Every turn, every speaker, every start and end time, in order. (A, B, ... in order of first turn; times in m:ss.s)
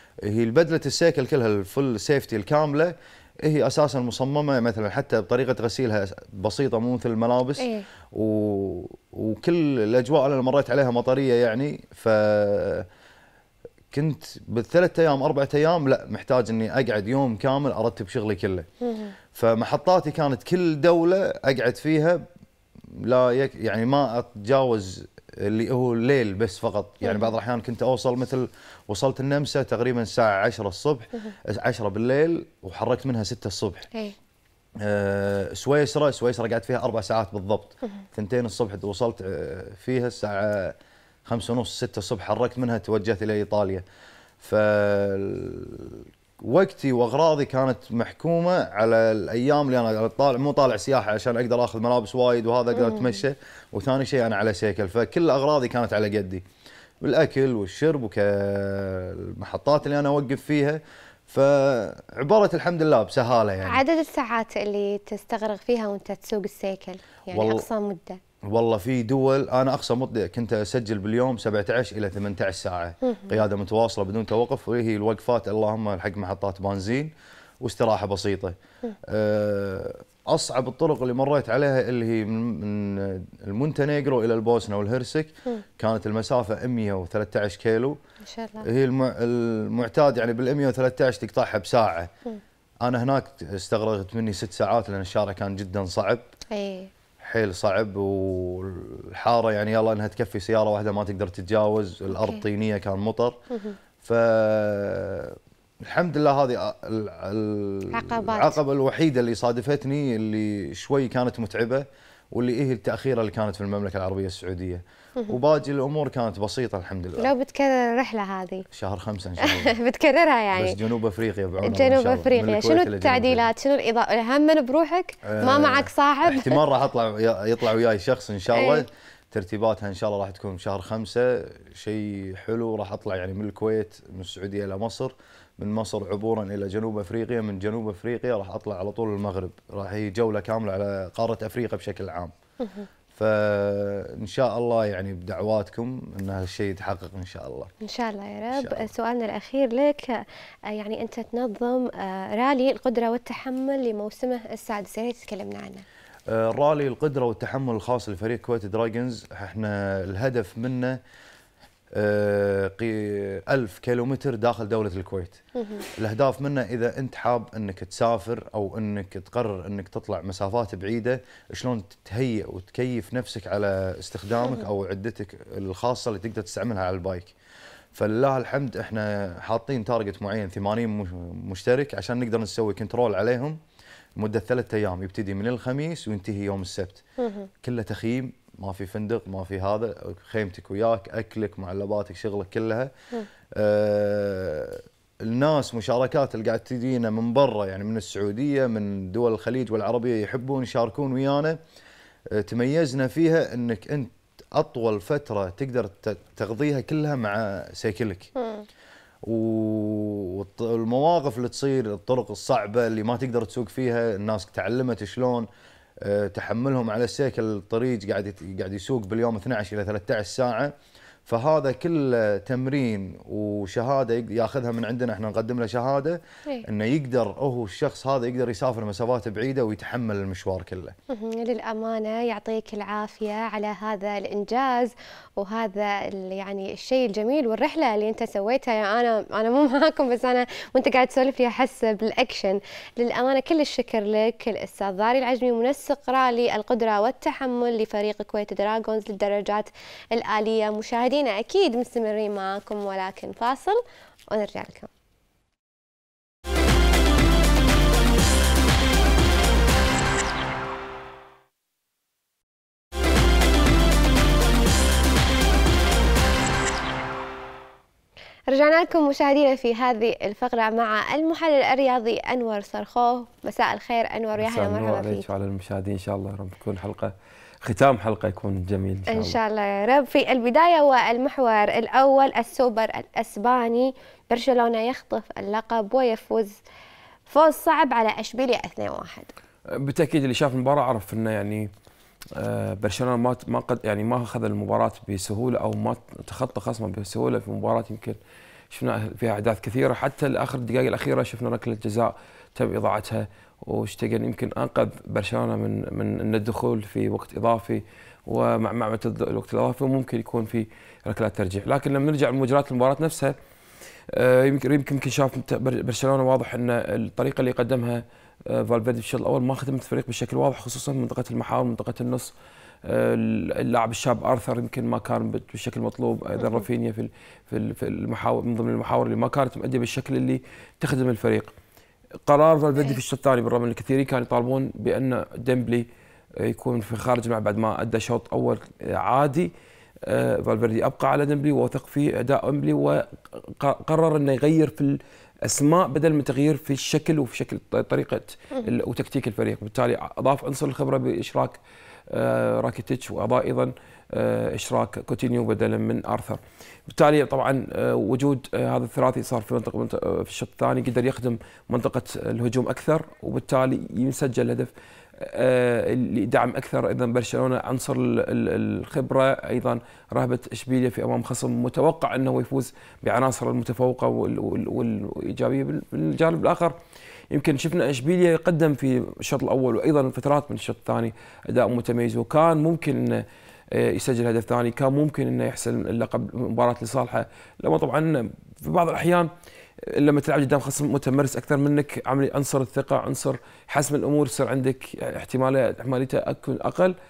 0:00.2-0:12.9 A
0:07.6-0:07.9 B
0:13.9-0:18.7 A
0:18.8-0:19.1 B
0:19.3-0:22.2 A
0:23.0-0:33.9 A
0:27.0-0:27.3 B
0:34.8-0:40.8 A
0:41.3-0:43.8 A
0:44.4-0:56.4 A
0:57.0-1:03.8 A
1:03.6-1:08.2 B
1:07.3-1:07.7 A
1:08.4-1:28.0 A
1:28.3-1:28.7 B
1:28.6-1:32.1 A
1:32.8-1:36.2 A
1:36.5-1:36.9 B
1:37.2-1:43.4 A
1:42.1-1:42.4 B
1:43.5-1:43.8 B
1:44.0-1:57.3 A
1:47.9-1:48.6 B
1:57.2-1:58.7 B
1:58.7-1:59.7 A
1:59.4-2:00.8 B
2:00.5-2:03.5 A
2:01.6-2:06.6 B
2:05.2-2:22.3 A
2:08.5-2:08.8 B
2:22.6-2:22.9 B
2:23.2-2:27.7 A
2:27.8-2:35.8 B
2:28.5-2:28.9 A
2:36.3-2:41.0 A
2:41.9-2:45.4 A
2:46.0-2:57.3 A
2:57.9-3:03.6 A
3:04.2-3:07.0 A
3:07.2-3:07.5 B
3:07.6-3:12.9 A
3:13.5-3:21.6 A
3:22.3-3:28.3 A
3:28.4-3:28.7 B
3:29.2-3:35.5 A
3:36.0-3:40.7 A
3:41.3-3:51.0 A
3:51.1-4:14.9 B
4:28.5-4:35.3 B
4:34.4-4:39.4 C
4:39.1-4:46.6 B
4:47.3-4:49.3 B
4:49.7-4:51.7 C
4:52.4-4:58.2 C
4:58.7-5:13.4 C
5:14.1-5:22.3 C
5:22.8-5:31.5 C
5:32.3-5:35.9 C
5:36.4-5:39.5 C
5:40.1-5:51.6 C
5:52.1-6:16.8 C
6:17.3-6:29.3 C
6:29.8-6:37.0 C